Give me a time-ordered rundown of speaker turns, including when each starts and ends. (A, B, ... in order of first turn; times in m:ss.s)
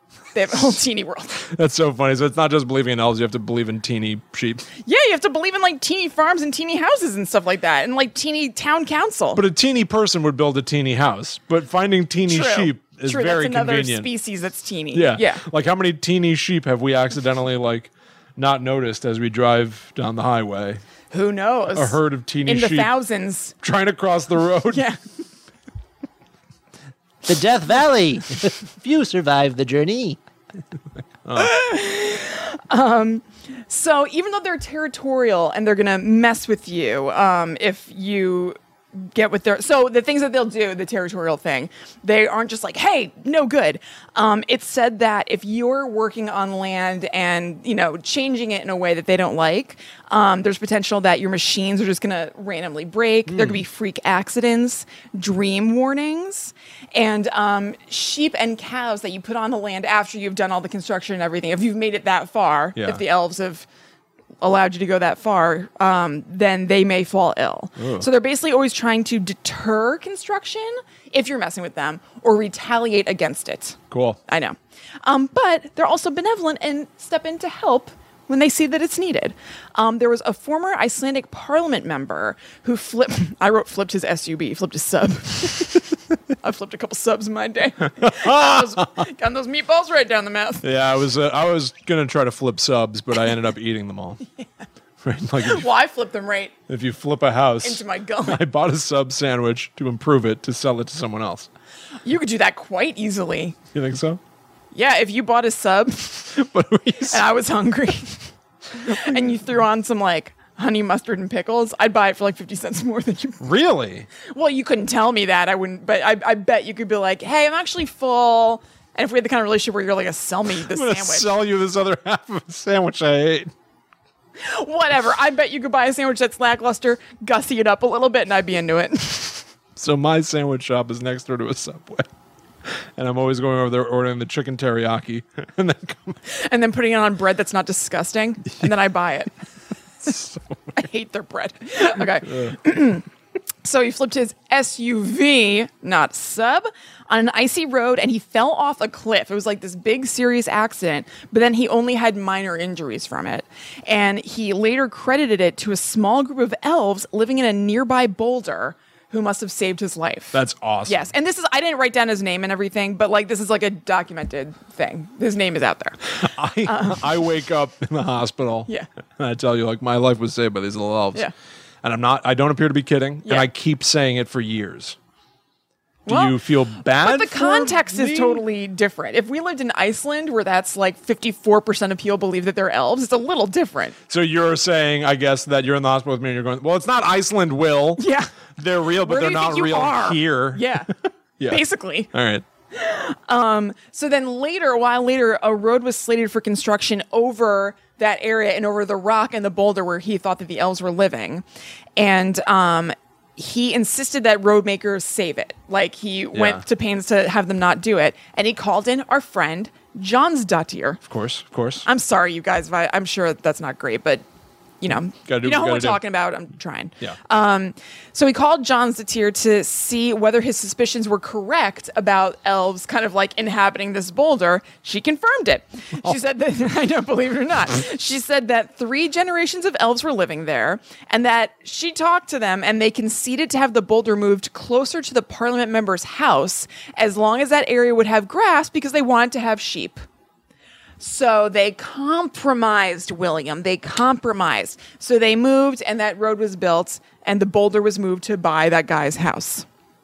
0:00.3-0:01.4 A
0:01.4-0:04.7 B
0:04.8-0:09.4 A
0:09.4-0:14.1 B
0:12.3-0:15.4 A
0:14.9-0:20.8 B
0:21.1-0:23.5 A
0:21.8-0:22.9 B
0:23.6-0:24.8 B
0:24.7-0:25.0 A
0:27.3-0:30.2 C
0:31.2-0:31.6 B
0:31.4-1:03.7 A
0:53.3-0:53.6 B
1:02.8-1:03.0 B
1:04.4-1:30.6 A
1:07.8-1:08.1 B
1:13.9-1:14.2 B
1:28.0-1:28.9 B
1:30.6-1:34.2 B
1:35.0-1:35.7 B
1:35.4-1:36.6 A
1:36.7-1:41.5 B
1:37.6-1:38.4 A
1:42.0-1:43.6 A
1:43.7-1:44.2 B
1:44.7-1:46.4 A
1:46.4-1:47.2 B
1:47.0-1:53.5 A
1:48.9-1:49.2 B
1:53.4-1:54.1 B
1:54.2-2:01.3 A
2:00.7-2:03.5 B
2:04.4-2:09.5 A
2:09.8-2:12.1 B
2:12.7-2:16.2 B
2:16.3-2:19.4 A
2:20.0-2:20.6 B
2:20.7-2:23.1 A
2:23.6-2:47.2 A
2:40.3-2:41.1 B
2:46.2-2:51.3 B
2:51.8-2:55.0 B
2:56.1-2:56.4 A
2:56.1-2:58.4 B
2:56.9-3:04.0 A
3:04.1-3:08.0 B
3:08.0-3:08.3 A
3:08.6-3:10.8 B
3:09.0-3:10.9 A
3:11.4-3:12.4 B
3:11.5-3:12.1 A
3:12.7-3:21.4 A
3:22.0-3:31.0 A
3:26.3-3:26.6 B
3:31.0-3:31.8 B
3:31.8-3:34.2 A
3:34.8-4:00.0 A
3:35.3-3:36.0 B
4:01.0-4:09.7 A